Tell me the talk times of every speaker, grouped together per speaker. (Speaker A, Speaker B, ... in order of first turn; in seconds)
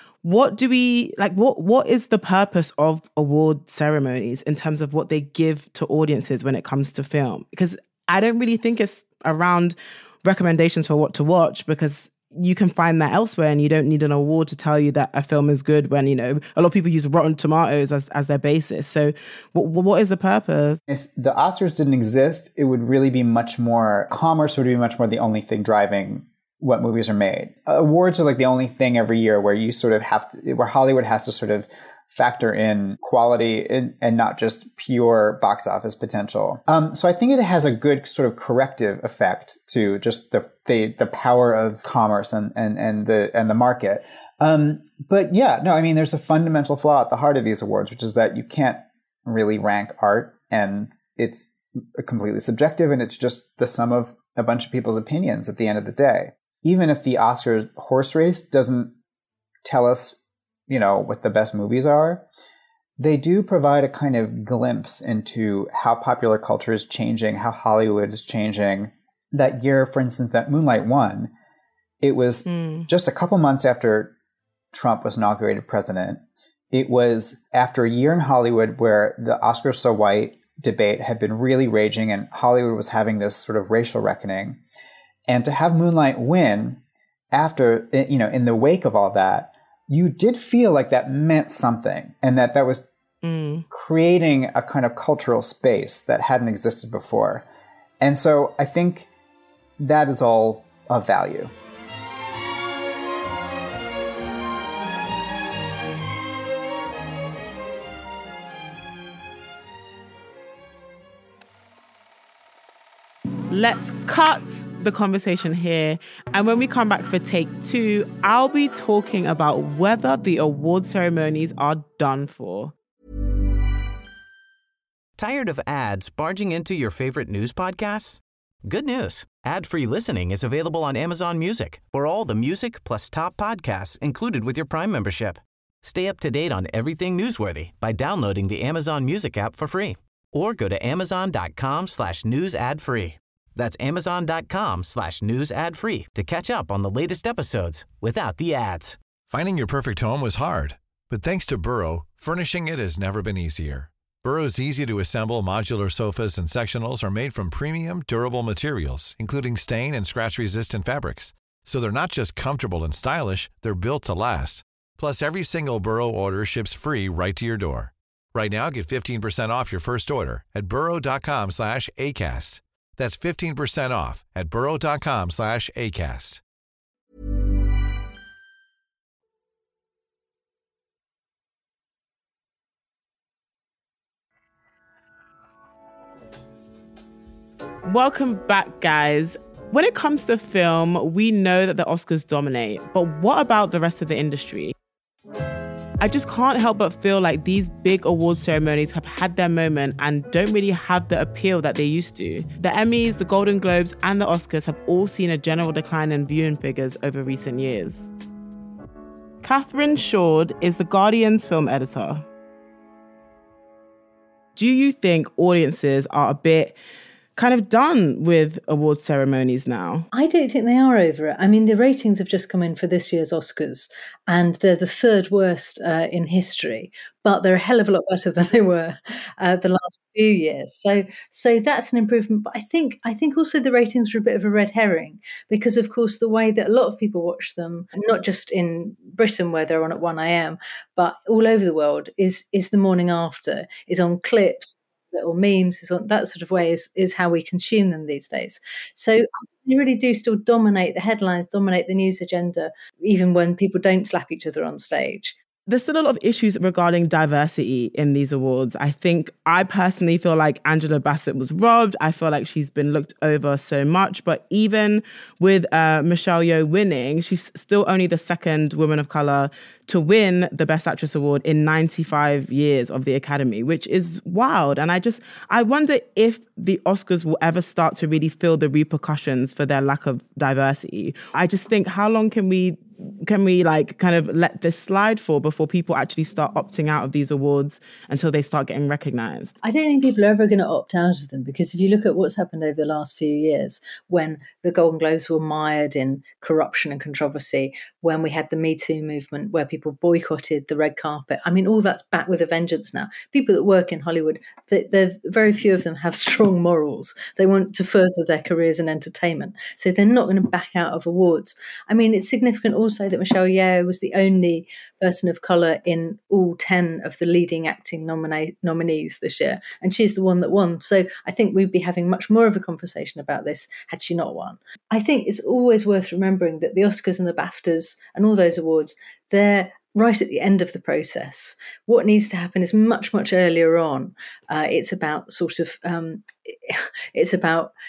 Speaker A: 0.2-20.8, 72.5-72.9, 93.2-93.7, 113.5-122.7, 187.8-194.7, 196.0-208.1, 209.4-212.2, 214.6-216.8, 217.3-220.1, 255.7-289.5
Speaker B: 20.9-58.9, 59.6-60.1, 60.7-62.2, 63.0-71.3, 72.0-74.1, 74.7-84.6, 85.3-86.8, 87.3-92.9, 93.7-97.5, 98.0-99.1, 99.8-101.5
Speaker C: 125.2-149.0
Speaker D: 149.3-176.4
Speaker E: 220.1-255.3, 289.6-337.7